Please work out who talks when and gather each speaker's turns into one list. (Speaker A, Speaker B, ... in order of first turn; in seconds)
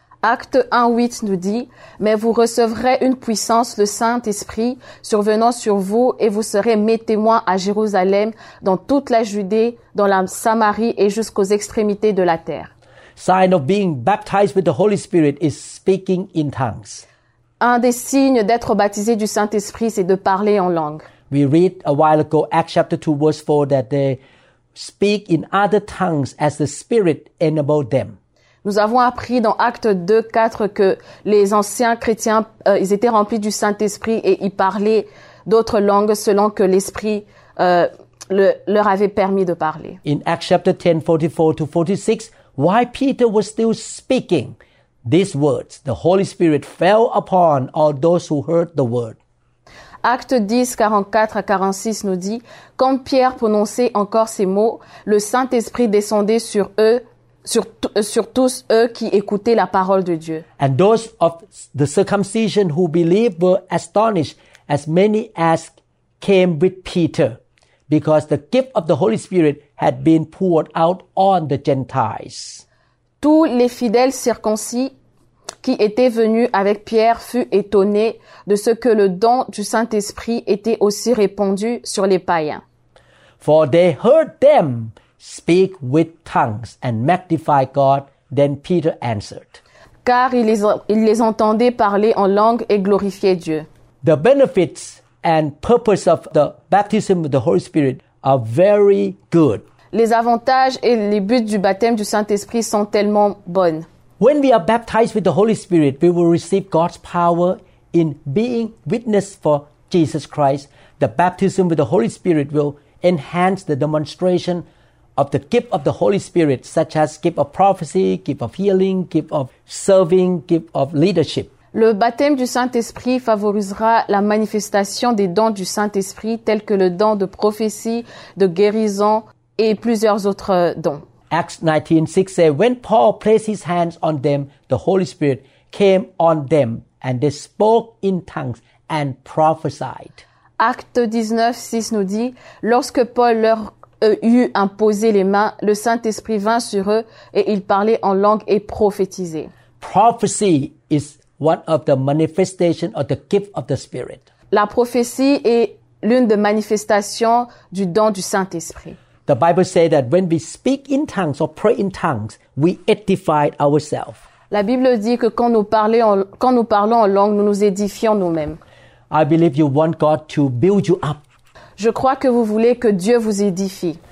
Speaker A: 0.2-12.7, 17.6-21.1, 28.6-40.0, 50.0-60.4, 73.2-74.9, 75.6-82.6, 90.0-93.7, 99.9-103.9, 121.7-131.0, 140.6-149.5, 154.5-159.0, 164.5-168.6, 171.8-174.0
Speaker B: 13.2-17.0, 21.3-24.2, 24.7-28.1, 40.0-49.2, 60.6-72.6, 83.4-89.6, 94.0-99.6, 104.2-114.7, 115.2-121.5, 131.3-140.2, 149.8-154.2, 159.3-164.2, 169.1-171.2